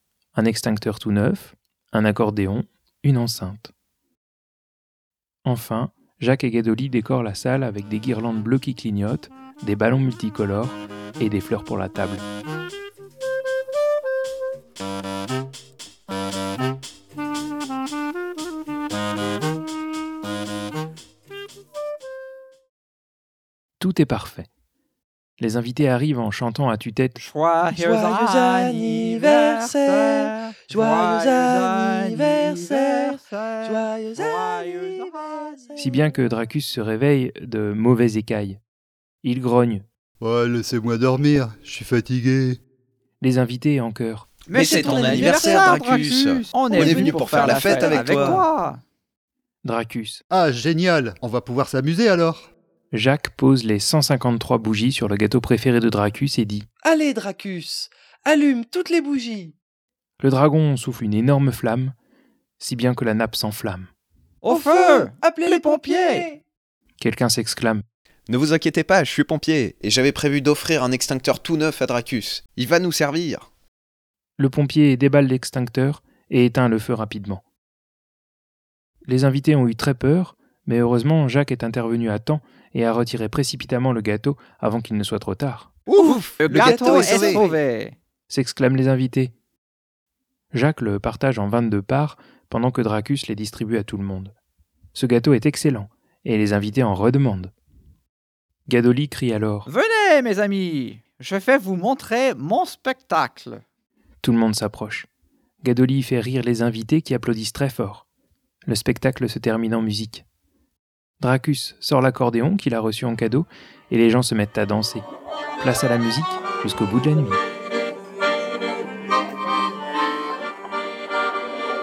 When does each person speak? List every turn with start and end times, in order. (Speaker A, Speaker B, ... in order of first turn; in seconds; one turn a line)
Speaker A: 0.3-3.7
Speaker A: 5.4-12.2
Speaker A: 23.8-24.5
Speaker A: 25.4-27.2
Speaker B: 27.2-35.6
Speaker C: 27.7-36.1
Speaker A: 35.8-38.6
Speaker A: 39.2-39.8
Speaker D: 40.2-42.6
Speaker A: 43.2-44.3
Speaker B: 44.5-48.8
Speaker E: 44.5-48.4
Speaker C: 44.5-45.7
Speaker C: 46.6-48.3
Speaker A: 49.6-50.2
Speaker D: 50.3-52.5
Speaker A: 52.9-56.7
Speaker C: 56.8-59.5
Speaker A: 60.2-61.9
Speaker A: 62.6-63.9
Speaker B: 64.4-66.3
Speaker C: 64.5-66.4
Speaker A: 67.0-67.8
Speaker E: 68.3-73.5
Speaker A: 74.4-77.4
Speaker A: 79.1-85.7
Speaker B: 85.9-87.9
Speaker E: 86.0-87.5
Speaker C: 86.5-87.5
Speaker A: 88.3-89.3
Speaker A: 90.5-94.3
Speaker A: 94.9-97.5
Speaker A: 98.7-99.7
Speaker B: 99.7-103.6
Speaker A: 104.2-105.1
Speaker A: 105.6-108.0
Speaker A: 108.7-110.2
Speaker A: 111.2-115.1
Speaker A: 115.6-117.4